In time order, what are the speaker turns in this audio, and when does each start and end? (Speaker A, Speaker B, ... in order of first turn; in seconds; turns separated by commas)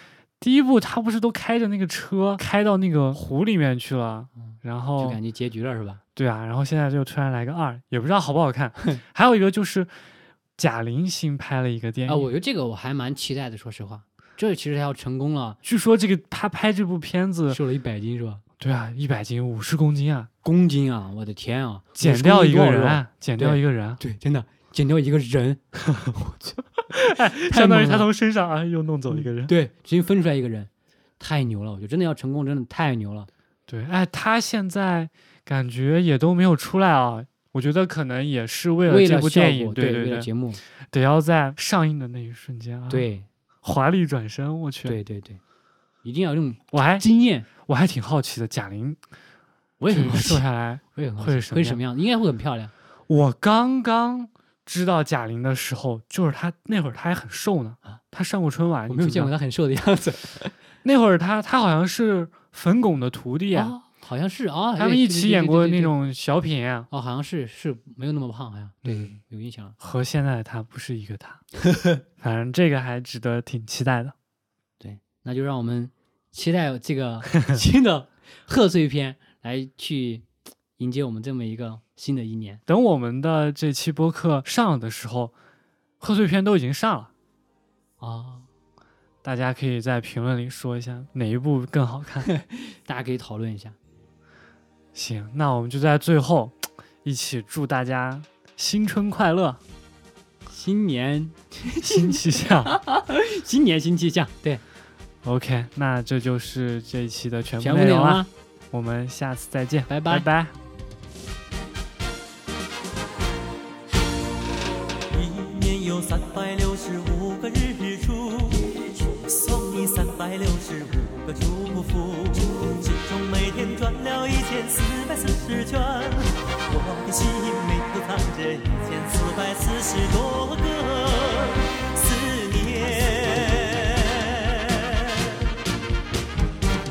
Speaker A: 0.4-5.2, Speaker B: 4.5-6.0, Speaker A: 6.2-9.9, Speaker A: 10.6-12.3, Speaker B: 12.1-15.6, Speaker A: 15.6-17.6, Speaker B: 17.5-18.4, Speaker A: 18.6-20.3, Speaker B: 20.4-26.6, Speaker A: 22.0-24.0, Speaker A: 26.9-29.5, Speaker B: 27.3-28.1, Speaker B: 29.4-33.3, Speaker A: 33.7-40.3, Speaker B: 38.9-40.6, Speaker A: 40.9-43.0, Speaker B: 42.9-43.3, Speaker A: 43.6-45.0, Speaker B: 44.9-45.4, Speaker B: 46.0-47.5, Speaker A: 46.7-47.0, Speaker A: 47.6-49.0, Speaker B: 49.8-52.7, Speaker A: 49.9-51.8, Speaker A: 53.1-59.3, Speaker B: 58.9-60.5, Speaker A: 60.8-63.7, Speaker B: 63.5-65.9, Speaker A: 64.8-66.9, Speaker B: 66.9-69.8, Speaker A: 68.8-69.1, Speaker A: 69.8-71.5, Speaker A: 72.2-74.1, Speaker B: 74.8-80.2, Speaker B: 80.8-82.6, Speaker A: 82.7-85.3, Speaker A: 86.0-87.1, Speaker B: 88.0-88.5, Speaker A: 89.2-92.3, Speaker B: 92.2-93.8, Speaker A: 94.9-99.6, Speaker B: 100.5-102.1, Speaker A: 101.8-102.8, Speaker B: 102.7-104.6, Speaker A: 105.2-110.5, Speaker B: 107.6-108.3, Speaker B: 109.9-110.2, Speaker C: 115.1-135.4